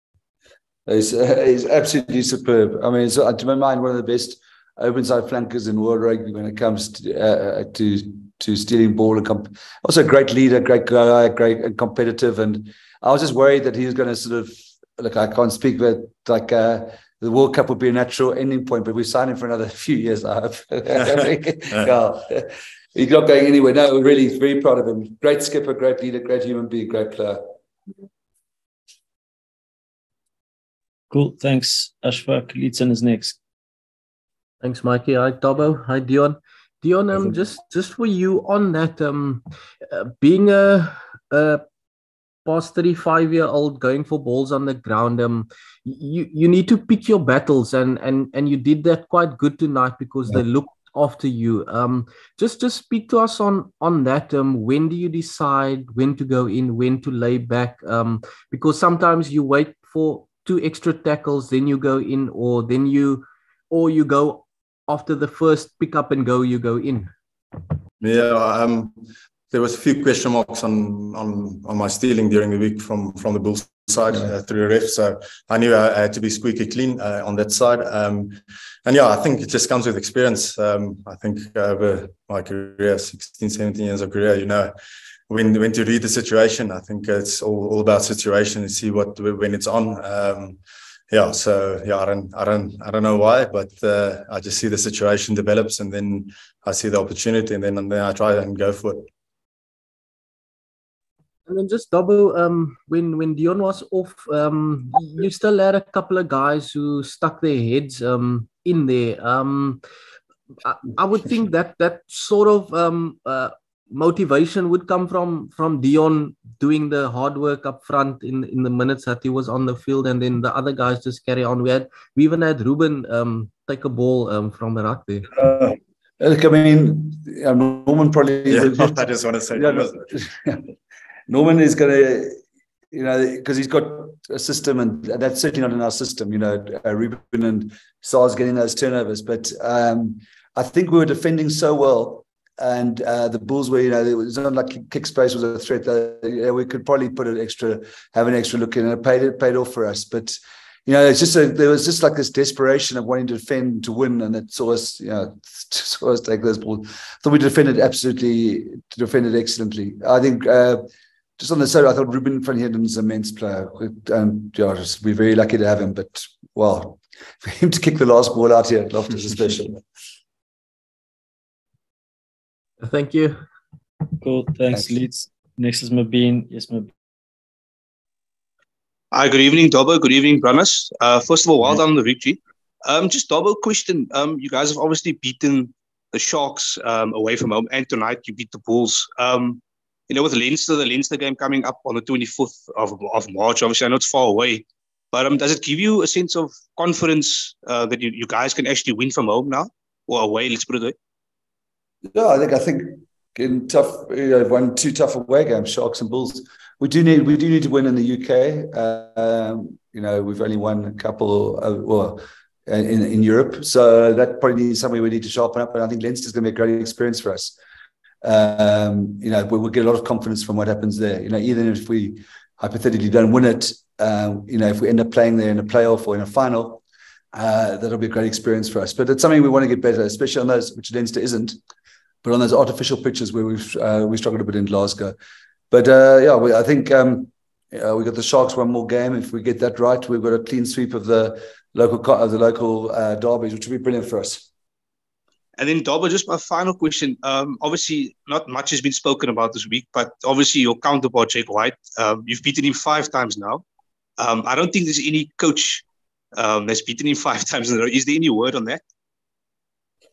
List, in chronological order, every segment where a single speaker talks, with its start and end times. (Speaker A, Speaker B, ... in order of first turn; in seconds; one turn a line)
Speaker A: 0.9-27.4
Speaker B: 31.1-33.4
Speaker C: 34.6-41.6
Speaker C: 42.5-67.1
Speaker D: 68.0-69.0
Speaker D: 69.5-84.7
Speaker D: 85.3-90.6
Speaker D: 91.1-99.1
Speaker C: 101.5-109.8
Speaker C: 110.6-125.3
Speaker A: 125.3-130.6
Speaker D: 128.5-130.1
Speaker A: 131.3-132.4
Speaker A: 132.9-160.8
Speaker A: 161.4-169.8
Speaker C: 172.8-173.4
Speaker B: 174.2-176.9
Speaker E: 179.1-200.9
Speaker A: 202.1-217.6
Speaker A: 218.2-226.8
Speaker A: 227.3-231.6
Speaker A: 232.2-235.2
Speaker A: 235.7-244.5
Speaker E: 245.6-253.6
Speaker E: 254.2-258.8